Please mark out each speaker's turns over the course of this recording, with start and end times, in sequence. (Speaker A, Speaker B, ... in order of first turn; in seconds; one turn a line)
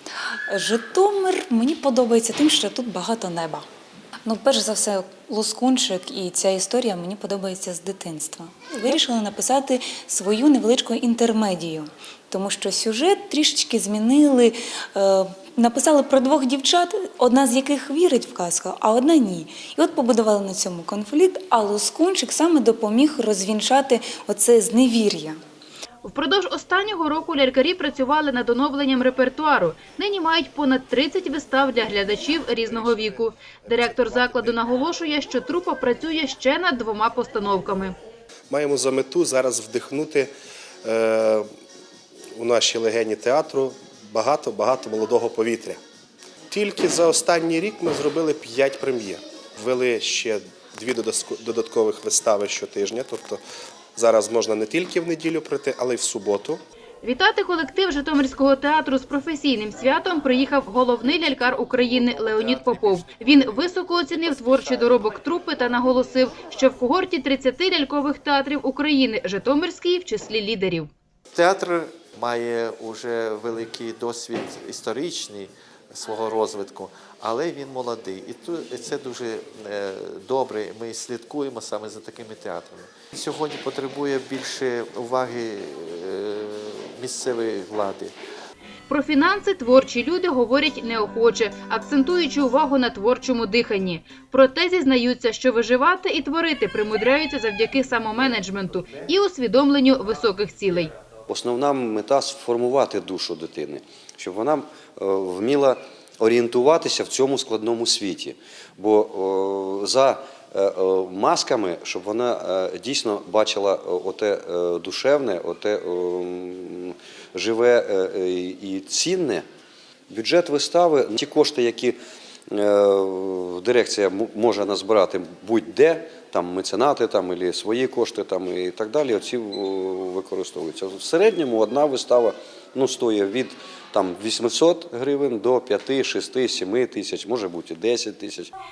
Speaker A: 0.5-3.7
Speaker A: 4.3-25.4
Speaker B: 26.0-38.0
Speaker C: 33.7-34.6
Speaker C: 38.5-40.3
Speaker C: 40.8-41.5
Speaker C: 42.4-45.8
Speaker C: 46.5-53.4
Speaker C: 54.0-56.6
Speaker B: 57.0-70.9
Speaker D: 71.3-88.1
Speaker B: 88.9-100.9
Speaker E: 101.3-119.5
Speaker E: 120.1-122.0
Speaker E: 122.5-138.5